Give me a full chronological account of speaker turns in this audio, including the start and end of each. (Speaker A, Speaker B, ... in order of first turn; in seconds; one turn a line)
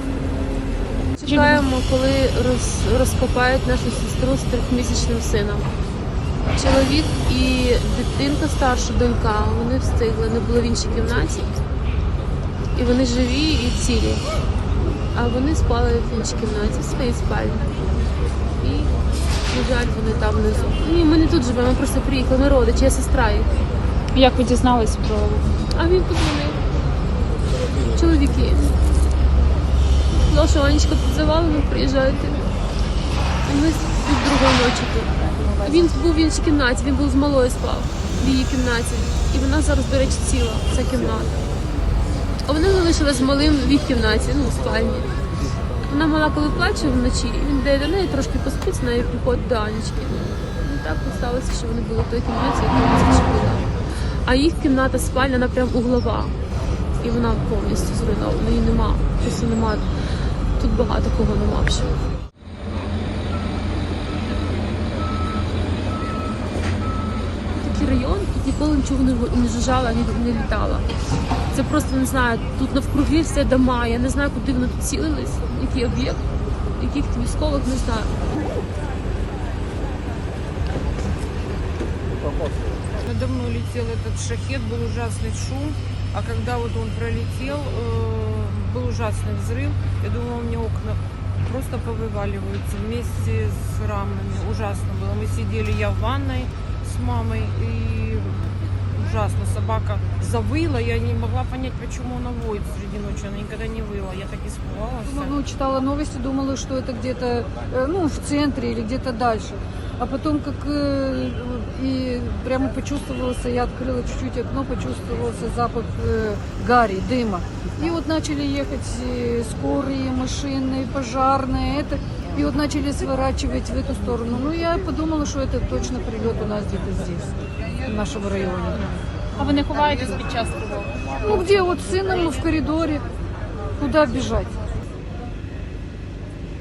Speaker A: 1.2-5.7
Speaker B: 1.2-1.6
Speaker A: 6.5-11.6
Speaker A: 12.7-14.3
Speaker A: 15.1-17.8
Speaker A: 18.6-18.9
Speaker A: 19.5-23.5
Speaker B: 24.1-25.6
Speaker A: 25.7-26.6
Speaker A: 27.9-28.7
Speaker A: 30.2-32.5
Speaker A: 33.4-41.3
Speaker A: 42.4-45.2
Speaker A: 45.9-53.7
Speaker A: 54.2-56.4
Speaker A: 57.0-59.9
Speaker A: 60.6-62.0
Speaker A: 67.6-70.9
Speaker A: 71.5-76.2
Speaker A: 76.8-78.1
Speaker C: 83.0-98.3
Speaker C: 98.9-105.4
Speaker D: 105.0-129.0
Speaker B: 129.4-131.0
Speaker D: 131.2-133.0
Speaker D: 133.8-134.5